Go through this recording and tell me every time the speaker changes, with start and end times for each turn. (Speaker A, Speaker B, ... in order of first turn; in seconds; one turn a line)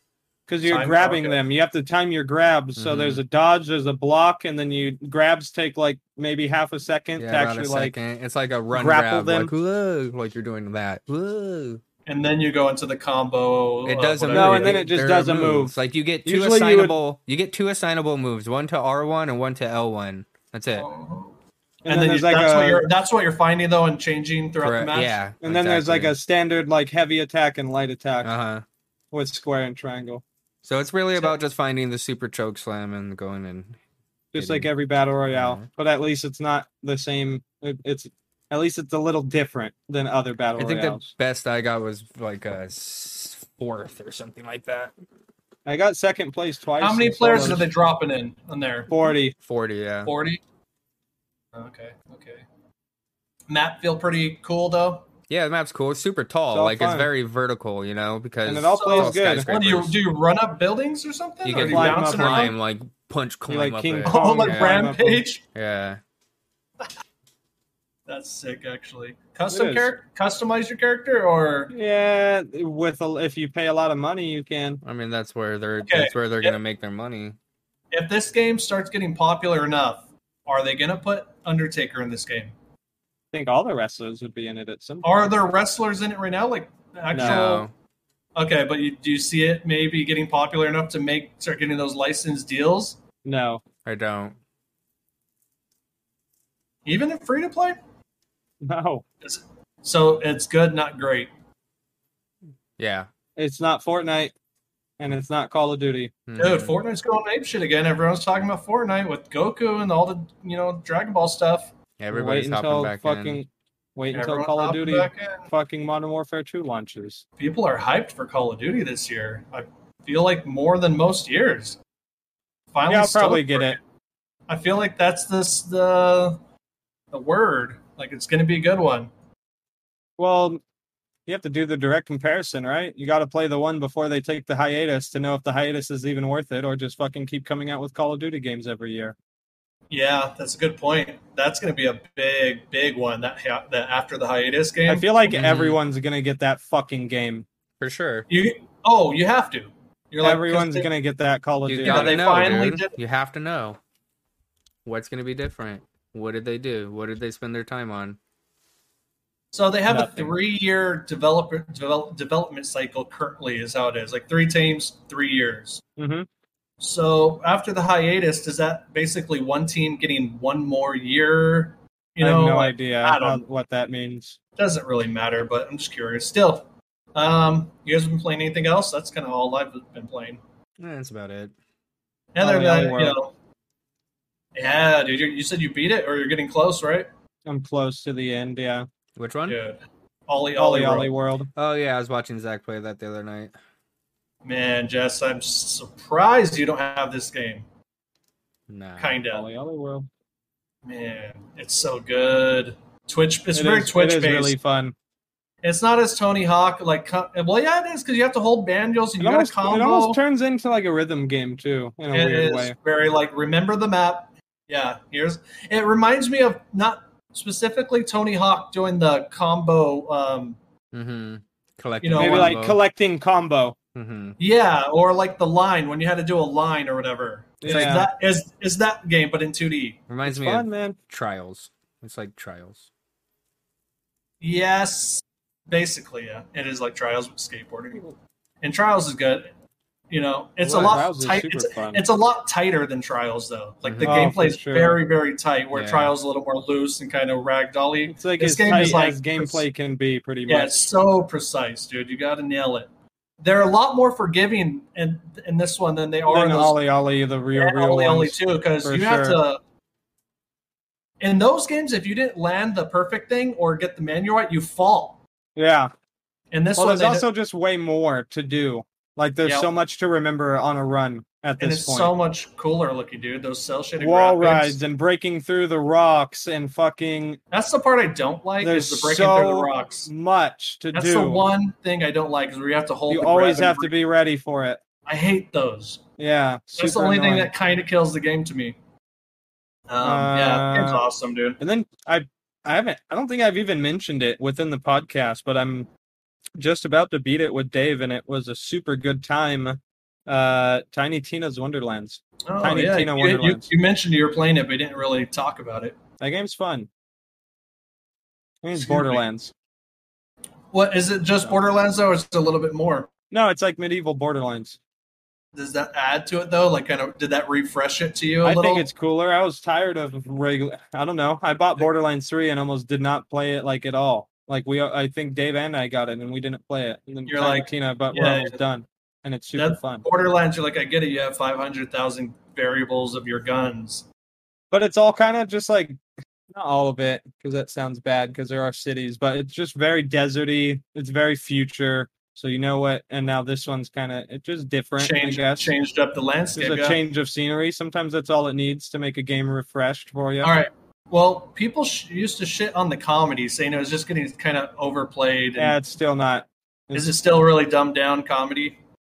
Speaker A: 0.5-8.0
Speaker B: 0.7-1.4
Speaker C: 2.8-3.2
Speaker C: 7.2-11.8
Speaker A: 8.7-9.5
Speaker B: 12.1-14.8
Speaker C: 13.8-20.9
Speaker A: 14.3-15.7
Speaker A: 16.2-17.0
Speaker B: 20.8-25.2
Speaker A: 21.9-22.9
Speaker C: 24.6-26.2
Speaker A: 25.4-28.3
Speaker C: 28.2-28.6
Speaker A: 29.1-30.2
Speaker C: 30.6-33.8
Speaker A: 34.3-41.1
Speaker C: 34.4-34.7
Speaker C: 35.3-35.7
Speaker C: 40.6-44.9
Speaker A: 45.7-47.7
Speaker B: 46.8-48.9
Speaker A: 48.9-49.4
Speaker C: 49.4-50.1
Speaker B: 50.0-50.4
Speaker B: 51.5-52.5
Speaker B: 53.5-55.1
Speaker C: 55.3-60.0
Speaker A: 56.5-57.1
Speaker A: 58.5-59.5
Speaker B: 58.7-62.5
Speaker C: 61.5-65.0
Speaker A: 61.6-62.5
Speaker A: 63.5-65.2
Speaker B: 64.0-65.4
Speaker C: 65.5-66.0
Speaker B: 68.1-71.7
Speaker A: 69.5-69.9
Speaker A: 71.7-74.8
Speaker C: 74.8-77.4
Speaker B: 75.8-76.6
Speaker B: 77.9-82.5
Speaker A: 83.3-85.1
Speaker B: 85.0-87.7
Speaker A: 87.1-87.4
Speaker C: 87.2-87.7
Speaker B: 88.4-93.0
Speaker A: 93.2-93.6
Speaker C: 93.8-94.4
Speaker B: 96.9-97.8
Speaker A: 98.6-99.0
Speaker B: 99.2-101.3
Speaker C: 102.8-103.1
Speaker A: 103.4-104.3
Speaker A: 105.0-106.1
Speaker C: 106.3-106.8
Speaker B: 106.4-111.7
Speaker C: 112.0-113.4
Speaker A: 112.1-117.2
Speaker B: 114.1-115.5
Speaker B: 117.4-121.8
Speaker B: 122.7-123.8
Speaker A: 122.9-123.8
Speaker B: 124.5-126.4
Speaker B: 127.1-129.1
Speaker A: 130.2-130.6
Speaker A: 131.3-139.2
Speaker B: 139.9-145.4
Speaker A: 144.9-147.5
Speaker C: 145.3-145.8
Speaker C: 147.8-148.3
Speaker B: 148.3-150.9
Speaker A: 150.2-152.5
Speaker C: 151.7-153.8
Speaker B: 151.8-152.9
Speaker C: 154.8-158.2
Speaker B: 159.5-165.8
Speaker A: 159.9-160.3
Speaker A: 166.0-166.3
Speaker B: 166.8-173.4
Speaker A: 172.2-174.4
Speaker B: 174.6-180.4
Speaker C: 180.8-181.5
Speaker B: 182.3-183.3
Speaker A: 182.4-183.2
Speaker B: 184.6-187.1
Speaker A: 187.5-188.9
Speaker C: 189.2-189.6
Speaker B: 189.5-191.1
Speaker A: 190.6-191.5
Speaker C: 191.6-193.5
Speaker B: 194.4-197.7
Speaker C: 198.7-199.2
Speaker B: 199.0-199.4
Speaker A: 199.3-200.1
Speaker B: 200.8-204.6
Speaker A: 203.5-204.9
Speaker B: 205.6-210.2
Speaker A: 209.2-212.8
Speaker B: 212.1-220.6
Speaker C: 220.9-222.8
Speaker B: 222.0-222.6
Speaker A: 222.2-223.8
Speaker C: 223.9-224.4
Speaker B: 224.4-230.0
Speaker A: 227.6-228.1
Speaker C: 227.7-227.9
Speaker C: 230.1-232.9
Speaker A: 230.2-231.0
Speaker B: 234.4-238.1
Speaker B: 238.6-239.5
Speaker B: 240.1-249.6
Speaker A: 240.6-242.0
Speaker C: 243.8-244.2
Speaker A: 244.0-245.0
Speaker C: 245.7-246.1
Speaker A: 248.1-250.8
Speaker B: 250.5-252.9
Speaker B: 253.4-256.8
Speaker A: 256.3-259.4
Speaker B: 257.6-259.6
Speaker B: 261.2-265.2
Speaker A: 265.6-265.9
Speaker B: 266.5-267.3
Speaker A: 266.8-272.1
Speaker B: 269.4-269.7
Speaker B: 271.6-274.8
Speaker A: 274.0-277.4
Speaker B: 277.5-280.1
Speaker A: 278.6-281.5
Speaker B: 280.9-283.9
Speaker A: 283.1-284.8
Speaker B: 285.1-286.0
Speaker A: 286.2-287.5
Speaker B: 286.8-288.8
Speaker B: 289.9-291.6
Speaker A: 290.0-291.0
Speaker A: 291.6-295.9
Speaker A: 296.6-303.7
Speaker B: 302.4-306.0
Speaker A: 306.2-306.9
Speaker A: 308.6-309.5
Speaker B: 308.8-309.2
Speaker B: 310.7-313.1
Speaker A: 313.3-314.8
Speaker B: 315.6-318.9
Speaker A: 318.4-330.0
Speaker B: 327.3-328.6
Speaker B: 329.6-334.1
Speaker A: 334.7-345.7
Speaker B: 345.0-347.0
Speaker A: 346.6-350.5
Speaker B: 350.4-355.8
Speaker A: 355.6-357.1
Speaker B: 356.9-358.8